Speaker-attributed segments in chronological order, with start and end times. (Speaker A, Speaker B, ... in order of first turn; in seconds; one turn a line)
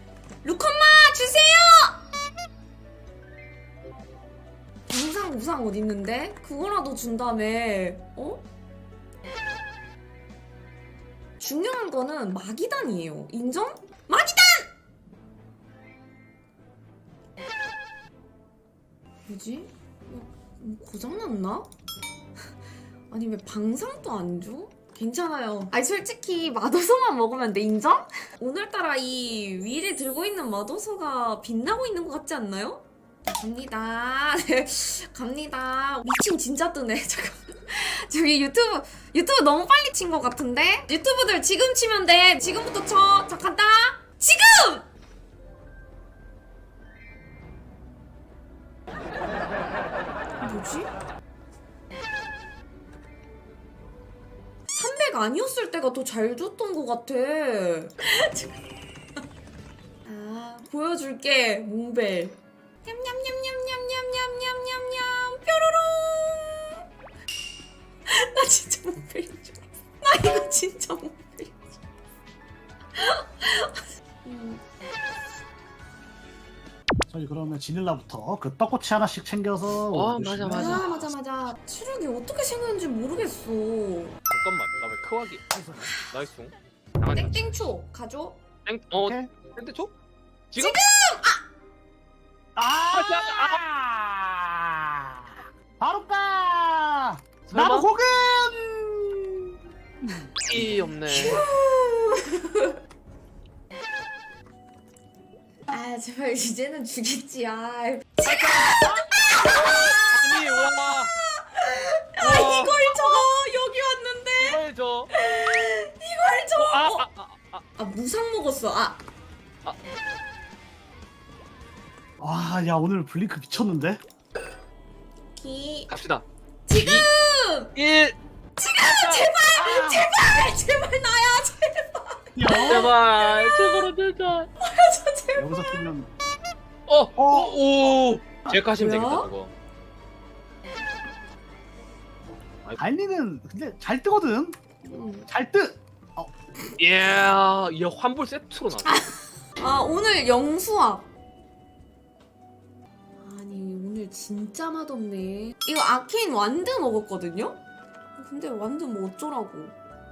Speaker A: 0.4-2.0
Speaker A: 4.9-8.5
Speaker A: 11.4-14.7
Speaker A: 19.3-21.7
Speaker A: 23.1-44.9
Speaker A: 50.4-50.9
Speaker A: 54.7-58.5
Speaker A: 60.0-66.8
Speaker A: 68.1-71.8
Speaker A: 73.0-74.6
Speaker B: 77.1-81.1
Speaker C: 79.9-81.0
Speaker A: 80.5-84.2
Speaker C: 84.3-87.6
Speaker B: 85.5-85.9
Speaker A: 87.1-88.4
Speaker C: 88.7-89.9
Speaker B: 89.0-89.3
Speaker C: 90.5-90.8
Speaker A: 90.6-91.4
Speaker B: 92.6-100.8
Speaker C: 92.9-93.6
Speaker C: 97.5-97.9
Speaker C: 100.5-101.5
Speaker A: 101.1-102.8
Speaker A: 105.7-117.1
Speaker C: 108.2-111.1
Speaker C: 112.2-112.8
Speaker C: 114.4-115.1
Speaker C: 116.6-117.6
Speaker A: 117.8-119.0
Speaker B: 122.2-124.0
Speaker A: 125.3-125.9
Speaker C: 125.9-126.2
Speaker A: 126.7-127.7
Speaker C: 126.8-127.1
Speaker C: 127.8-128.2
Speaker A: 128.6-133.8
Speaker C: 128.8-129.3
Speaker B: 129.5-130.1
Speaker B: 132.4-132.9
Speaker C: 132.6-134.5
Speaker A: 134.6-135.8
Speaker B: 135.4-136.1
Speaker C: 136.9-139.5
Speaker B: 137.2-137.6
Speaker A: 138.8-139.3
Speaker B: 142.8-144.6
Speaker A: 144.8-145.3
Speaker B: 145.3-146.3
Speaker C: 146.8-149.0
Speaker A: 148.9-151.1
Speaker A: 153.2-157.6
Speaker A: 158.2-159.8